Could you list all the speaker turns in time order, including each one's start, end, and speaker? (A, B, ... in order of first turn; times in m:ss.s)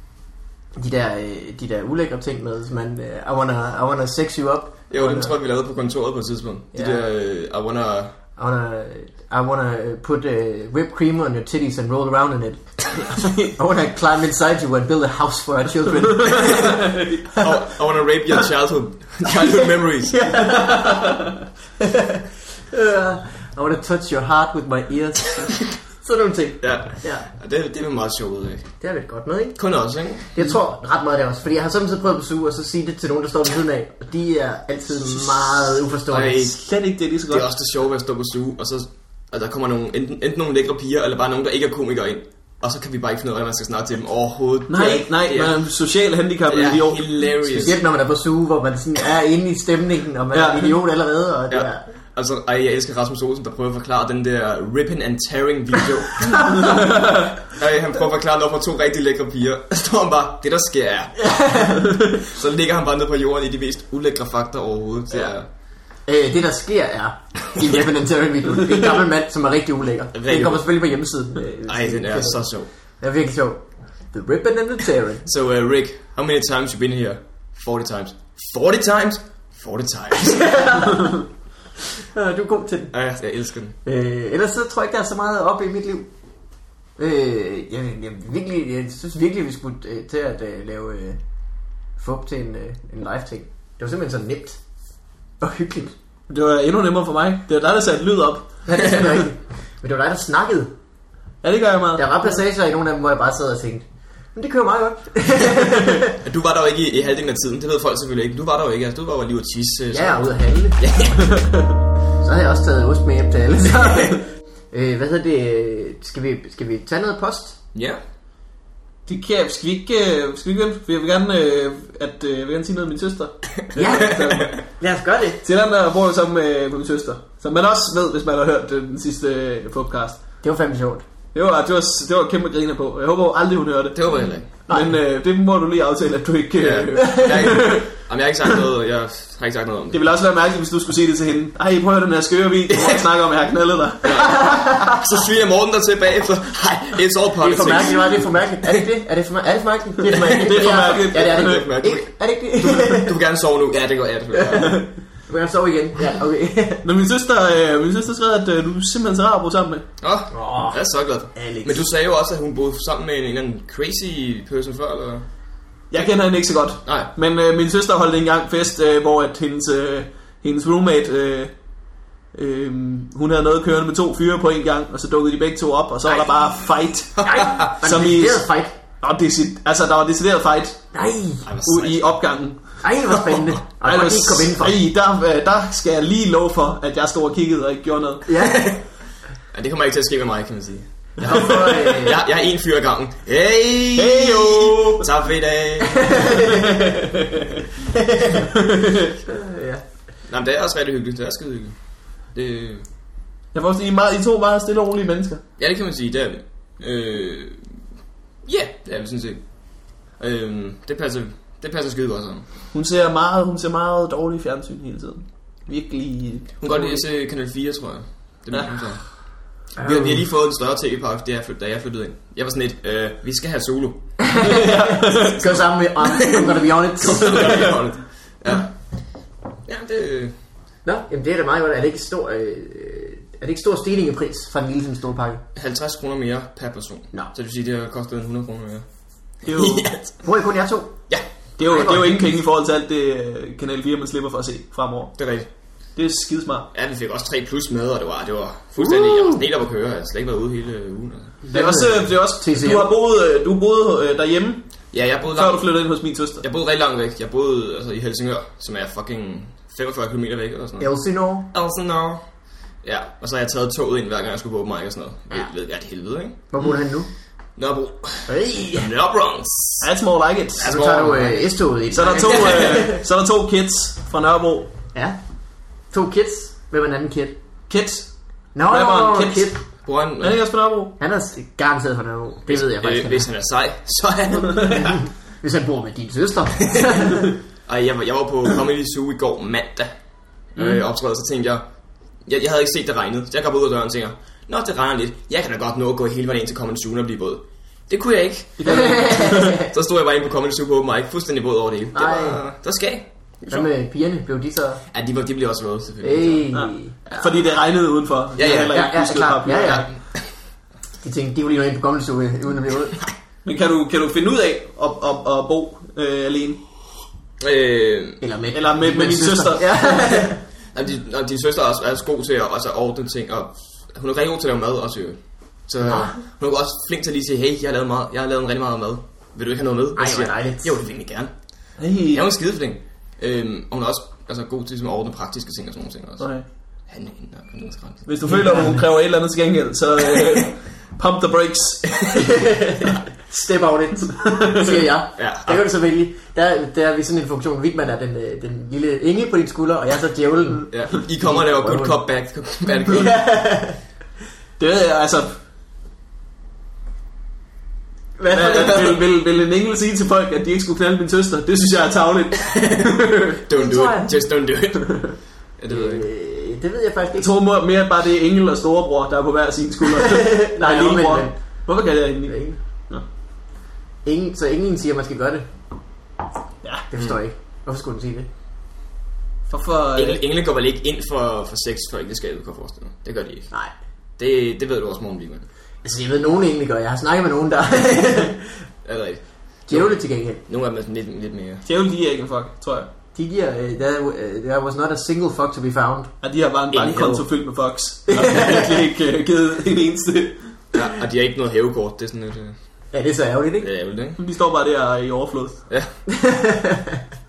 0:00.8-0:05.3 A
0:04.9-0:08.1 B
0:06.7-0:07.0 A
0:08.4-0:17.5 A
0:16.2-0:17.2 C
0:16.4-0:16.8 B
0:17.4-0:20.3 B
0:20.0-0:21.3 A
0:20.9-0:21.2 C
0:21.8-0:27.3 A
0:26.6-0:28.7 B
0:28.8-0:29.6 A
0:29.6-0:30.3 B
0:30.3-0:36.5 A
0:36.1-0:36.6 B
0:36.4-0:37.5 C
0:37.3-0:45.6 B
0:44.7-0:47.6 C
0:46.4-0:47.8 B
0:47.5-0:51.8 A
0:50.3-0:50.7 C
0:51.5-1:01.4 B
0:56.3-0:56.8 A
1:01.2-1:02.1 A
1:02.1-1:05.5 B
1:06.0-1:12.5 A
1:10.1-1:10.6 B
1:11.6-1:12.7 B
1:13.0-1:15.2 A
1:15.2-1:20.6 B
1:20.2-1:21.2 A
1:22.1-1:22.9 A
1:22.9-1:23.8 B
1:23.8-1:26.1 A
1:27.0-1:31.2 A
1:32.0-1:34.6 A
1:35.4-1:35.9 A
1:36.3-1:39.2 C
1:38.6-1:40.7 A
1:41.4-1:42.2 C
1:42.0-1:46.2 A
1:46.2-1:51.3 B
1:49.9-1:50.8 A
1:51.2-1:51.7 C
1:52.2-1:57.6 A
1:57.7-1:58.0 B
1:59.1-2:04.6 C
2:03.8-2:05.4 A
2:03.9-2:04.6 B
2:05.4-2:10.2 C
2:10.4-2:11.0 A
2:11.3-2:18.0 C
2:13.9-2:14.5 B
2:14.7-2:14.9 A
2:16.6-2:20.0 B
2:17.0-2:17.2 A
2:19.9-2:24.2 C
2:22.7-2:23.0 B
2:24.0-2:28.2 B
2:24.2-2:25.0 A
2:27.4-2:33.1 A
2:30.3-2:31.7 C
2:30.6-2:34.8 B
2:34.3-2:36.8 A
2:36.8-2:39.9 C
2:40.0-2:45.2 B
2:40.3-2:40.8 A
2:41.4-2:41.8 A
2:45.9-2:51.5 C
2:46.8-2:47.1 B
2:52.3-2:58.4 C
2:57.2-2:57.7 B
2:57.2-2:58.7 A
2:59.0-3:00.8 C
3:00.9-3:01.5 A
3:01.4-3:02.0 B
3:01.6-3:02.8 C
3:02.8-3:04.8 A
3:03.8-3:08.3 C
3:08.3-3:08.7 A
3:08.4-3:08.8 B
3:09.5-3:16.3 B
3:11.2-3:12.2 A
3:11.3-3:11.9 C
3:14.0-3:15.1 C
3:15.9-3:16.9 A
3:16.6-3:17.1 C
3:17.9-3:18.5 A
3:18.6-3:19.1 C
3:19.2-3:19.8 A
3:20.3-3:22.9 B
3:23.5-3:25.4 C
3:25.6-3:27.8 B
3:28.4-3:32.4 B
3:32.7-3:37.0 C
3:36.6-3:39.1 B
3:38.5-3:38.9 C
3:39.8-3:40.2 A
3:39.8-3:44.1 B
3:44.2-3:47.7 A
3:44.4-3:45.4 C
3:46.1-3:48.7 B
3:47.2-3:47.7 C
3:49.6-3:50.3 B
3:50.8-3:55.4 A
3:55.5-3:58.9 B
3:59.4-4:00.2 B
3:59.4-3:59.9 C
4:00.2-4:01.0 A
4:01.6-4:05.2 C
4:01.6-4:02.3 A
4:05.2-4:05.5 B
4:06.0-4:06.7 C
4:06.7-4:11.4 B
4:08.8-4:09.4 A
4:11.4-4:12.9 A
4:11.5-4:16.4 C
4:14.9-4:15.7 B
4:16.4-4:20.9 B
4:20.8-4:21.5 A
4:21.5-4:22.2 B
4:22.8-4:26.4 B
4:26.5-4:27.1 A
4:27.6-4:29.9 B
4:28.3-4:28.9 A
4:29.8-4:30.7 C
4:30.6-4:31.5 B
4:30.6-4:33.0 A
4:31.9-4:34.7 C
4:32.1-4:32.8 B
4:35.9-4:37.4 A
4:37.7-4:38.1 C
4:38.5-4:39.6 A
4:38.7-4:39.5 C
4:39.8-4:40.4 B
4:40.2-4:40.9 C
4:41.0-4:43.3 A
4:42.5-4:45.0 B
4:44.7-4:47.3 A
4:46.7-4:49.9 B
4:50.5-4:51.6 B
4:52.2-5:03.7 B
4:58.6-4:59.6 C
4:58.6-4:59.7 A
5:01.9-5:02.4 A
5:03.5-5:04.8 A
5:04.9-5:06.4 B
5:06.0-5:07.2 A
5:06.5-5:09.9 C
5:08.4-5:08.9 B
5:08.7-5:09.9 A
5:09.5-5:10.3 B
5:11.0-5:13.0 A
5:13.4-5:16.6 C
5:17.4-5:18.2 B
5:18.2-5:20.4 A
5:18.5-5:20.1 C
5:20.7-5:36.3 B
5:25.8-5:26.2 A
5:30.0-5:30.8 A
5:31.8-5:32.2 C
5:36.2-5:36.4 C
5:36.9-5:38.1 B
5:38.0-5:42.1 C
5:38.2-5:38.9 A
5:42.1-5:52.0 A
5:44.2-5:44.8 C
5:45.2-5:45.6 B
5:50.7-5:53.2 B
5:52.9-5:53.8 A
5:54.6-5:55.4 C
5:58.2-5:59.0 A
5:58.3-6:03.4 C
5:58.5-5:58.9 B
6:02.6-6:02.8 B
6:03.5-6:06.1 B
6:03.5-6:04.1 A
6:05.7-6:07.3 A
6:07.2-6:13.0 C
6:10.0-6:11.4 A
6:12.2-6:12.6 A
6:14.0-6:15.4 A
6:16.9-6:18.3 A
6:19.5-6:20.2 C
6:19.9-6:23.5 B
6:24.2-6:25.4 B
6:25.8-6:28.6 A
6:28.8-6:31.6 B
6:29.7-6:30.4 A
6:31.6-6:32.9 C
6:33.1-6:36.1 A
6:36.2-6:40.6 C
6:36.7-6:37.3 B
6:38.1-6:38.8 A
6:40.7-6:42.6 B
6:42.9-6:43.7 A
6:43.6-6:44.2 B
6:44.2-6:45.6 C
6:46.1-6:47.0 A